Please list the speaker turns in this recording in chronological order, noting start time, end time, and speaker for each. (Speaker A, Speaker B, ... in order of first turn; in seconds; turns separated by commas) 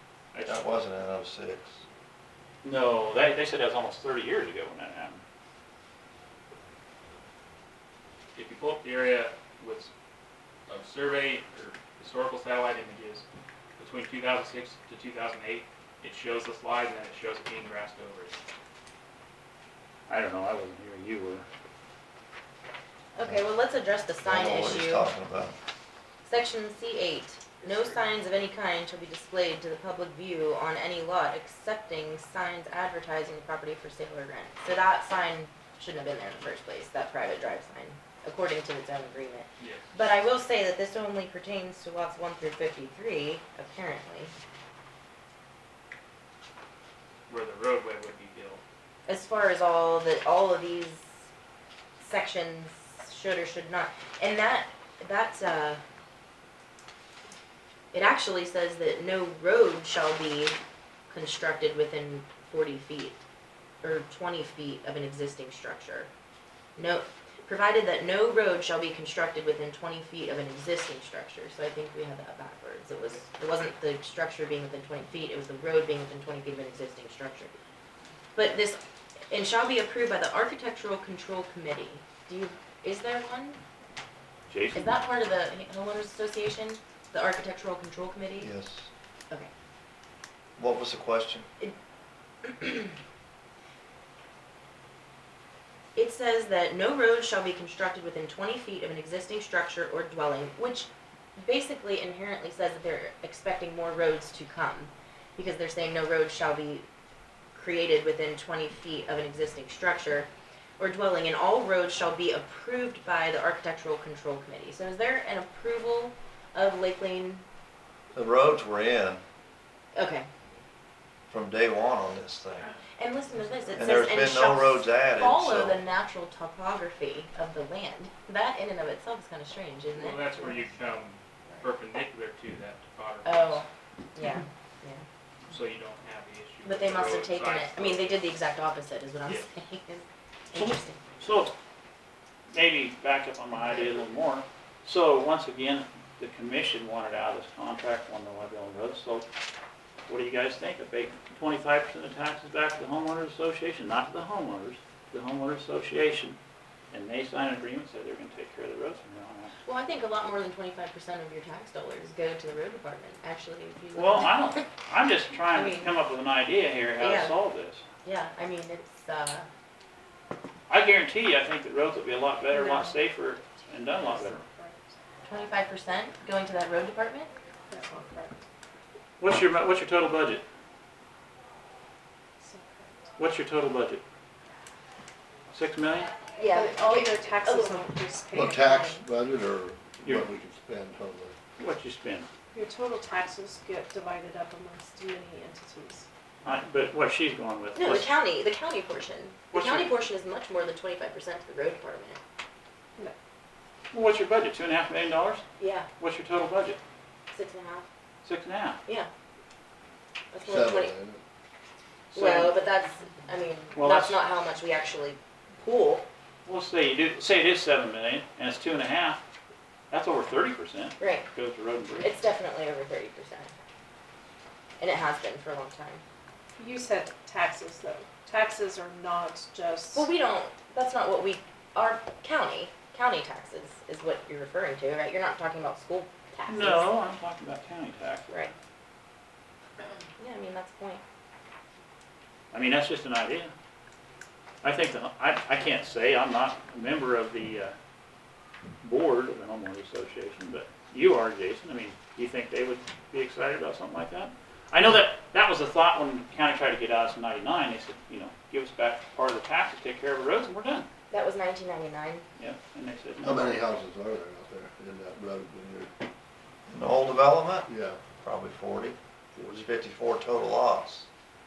Speaker A: 0.3-0.7, Speaker B: 0.4-1.8, Speaker C: 2.6-5.2, Speaker A: 8.3-9.9, Speaker A: 10.7-13.2, Speaker A: 13.8-18.4, Speaker C: 20.1-21.4, Speaker D: 23.1-25.1, Speaker B: 24.2-25.6, Speaker D: 26.2-44.3, Speaker A: 39.6-39.9, Speaker A: 47.3-48.6, Speaker D: 49.0-51.1, Speaker D: 52.0-55.8, Speaker D: 57.9-60.5, Speaker D: 61.1-63.2, Speaker D: 63.8-66.1, Speaker D: 66.8-77.5, Speaker D: 78.3-83.6, Speaker C: 84.5-84.9, Speaker D: 84.7-88.5, Speaker B: 88.4-88.9, Speaker B: 90.6-91.5, Speaker D: 92.4-93.0, Speaker D: 95.9-106.8, Speaker D: 107.5-117.4, Speaker B: 118.1-119.2, Speaker D: 119.9-120.3, Speaker B: 121.3-122.7, Speaker D: 123.0-130.6, Speaker B: 123.7-125.8, Speaker A: 129.9-133.6, Speaker D: 133.2-135.0, Speaker A: 135.5-138.2, Speaker D: 136.6-141.0, Speaker C: 140.5-141.5, Speaker C: 142.5-149.3, Speaker C: 150.1-156.4, Speaker C: 156.9-159.5, Speaker D: 159.6-164.7, Speaker C: 163.9-167.8, Speaker D: 165.5-165.9, Speaker D: 167.0-167.4, Speaker D: 168.0-169.5, Speaker C: 170.7-174.4, Speaker E: 172.5-173.0, Speaker E: 173.9-174.9, Speaker D: 175.2-177.3, Speaker E: 177.7-178.4, Speaker C: 179.2-180.4, Speaker E: 182.4-183.0, Speaker C: 183.2-184.0, Speaker C: 185.5-186.1, Speaker D: 186.3-187.9, Speaker E: 186.4-189.1, Speaker F: 188.3-191.3, Speaker C: 191.6-192.3, Speaker E: 192.5-196.1, Speaker C: 196.4-198.1, Speaker D: 197.8-202.2, Speaker C: 199.5-199.9, Speaker C: 203.9-205.4, Speaker D: 205.6-205.9, Speaker C: 206.0-206.8, Speaker D: 207.3-207.9, Speaker C: 208.2-208.8, Speaker D: 210.3-210.9, Speaker F: 210.4-211.2, Speaker D: 212.1-216.0, Speaker C: 212.1-212.6, Speaker C: 213.7-214.2, Speaker C: 216.4-219.2, Speaker C: 219.9-222.1, Speaker D: 221.0-221.3, Speaker D: 222.0-223.5, Speaker D: 224.8-226.0, Speaker E: 226.6-230.1, Speaker D: 229.9-236.9, Speaker C: 236.5-238.5, Speaker D: 240.2-241.0, Speaker C: 242.5-243.5, Speaker C: 244.6-247.7, Speaker C: 248.8-260.9, Speaker D: 261.1-262.2, Speaker C: 262.4-263.6, Speaker F: 263.2-265.9, Speaker B: 266.7-271.1, Speaker F: 267.7-268.0